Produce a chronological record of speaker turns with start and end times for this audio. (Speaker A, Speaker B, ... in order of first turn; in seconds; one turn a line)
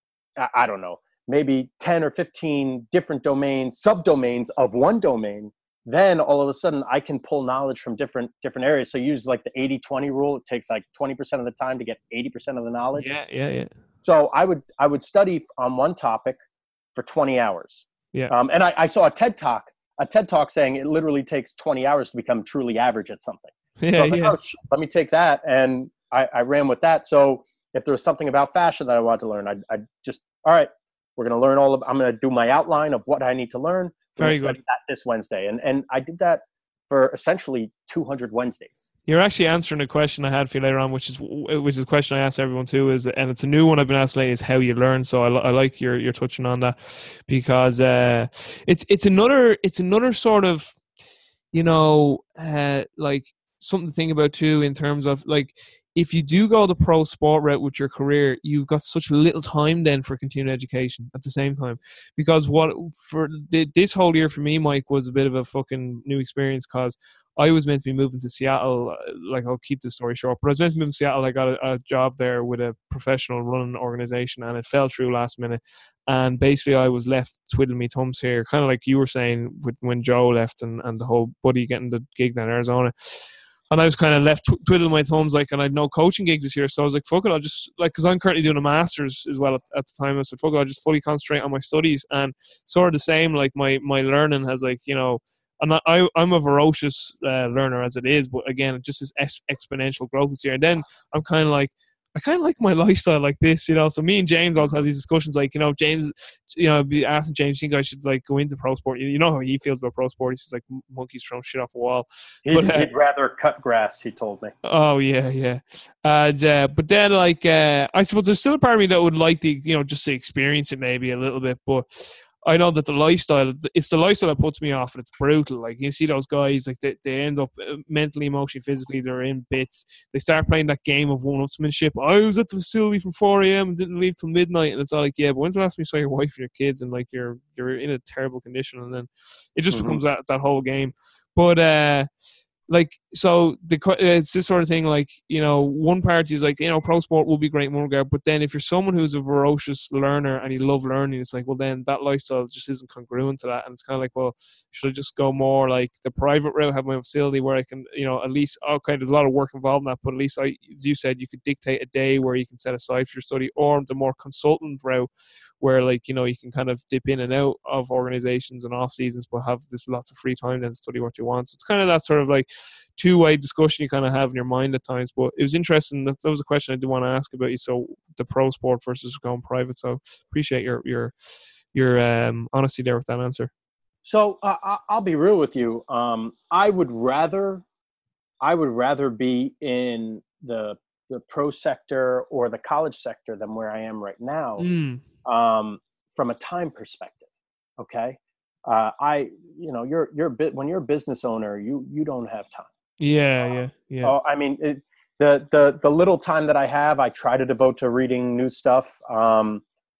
Speaker A: 0.4-13.1
Speaker B: 12.9-13.7
Speaker A: 14.0-16.4
Speaker A: 16.9-38.9
Speaker B: 23.8-24.3
Speaker B: 34.2-34.6
Speaker B: 39.1-50.8
Speaker B: 51.5-112.9
Speaker A: 112.5-114.5
Speaker B: 114.6-142.1
Speaker A: 139.7-140.0
Speaker B: 142.7-165.1
Speaker B: 165.6-181.1
Speaker B: 181.7-183.5
Speaker A: 184.0-187.6
Speaker A: 188.4-194.7
Speaker B: 194.6-195.0
Speaker A: 195.2-197.2
Speaker A: 197.8-202.7
Speaker B: 203.0-204.1
Speaker A: 204.0-209.6